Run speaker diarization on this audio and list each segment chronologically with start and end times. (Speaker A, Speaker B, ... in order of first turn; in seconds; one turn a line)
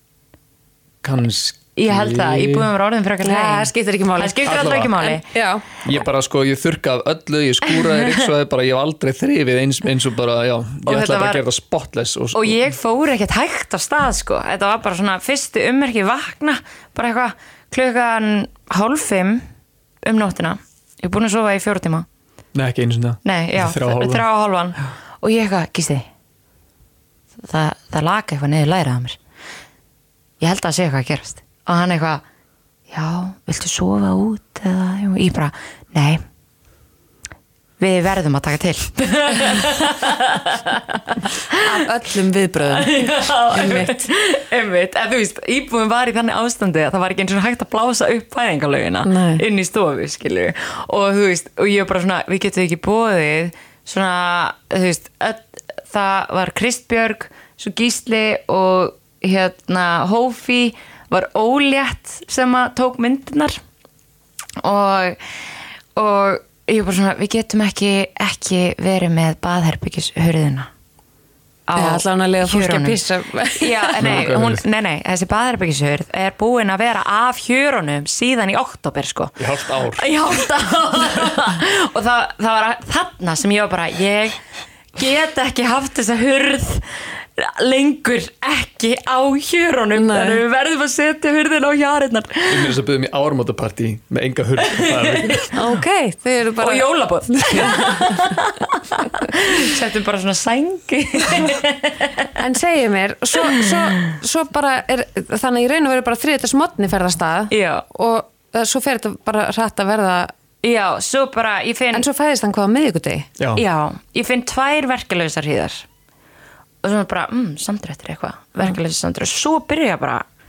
Speaker A: 1.0-2.7
Speaker B: 1.8-5.2
Speaker C: 3.2-5.7
Speaker A: 4.4-5.0
Speaker A: 5.8-12.6
Speaker B: 10.8-11.4
Speaker B: 12.3-19.4
Speaker B: 20.0-22.1
Speaker A: 22.5-24.2
Speaker B: 23.2-26.1
Speaker B: 27.4-29.2
Speaker B: 30.4-32.2
Speaker B: 32.9-36.2
Speaker B: 37.8-41.7
Speaker C: 41.5-44.1
Speaker B: 42.7-63.6
Speaker C: 49.0-49.4
Speaker B: 64.6-65.2
Speaker B: 66.0-70.7
Speaker B: 71.7-84.4
Speaker C: 71.8-74.2
Speaker A: 74.0-74.6
Speaker A: 79.4-80.1
Speaker B: 85.0-92.8
Speaker C: 89.9-90.4
Speaker A: 92.5-95.5
Speaker B: 94.8-95.5
Speaker C: 95.5-98.2
Speaker B: 96.6-102.3
Speaker C: 102.4-110.3
Speaker B: 103.5-104.2
Speaker B: 107.5-107.8
Speaker B: 110.6-112.1
Speaker C: 111.9-113.3
Speaker A: 113.4-113.6
Speaker B: 113.5-115.8
Speaker B: 116.8-120.2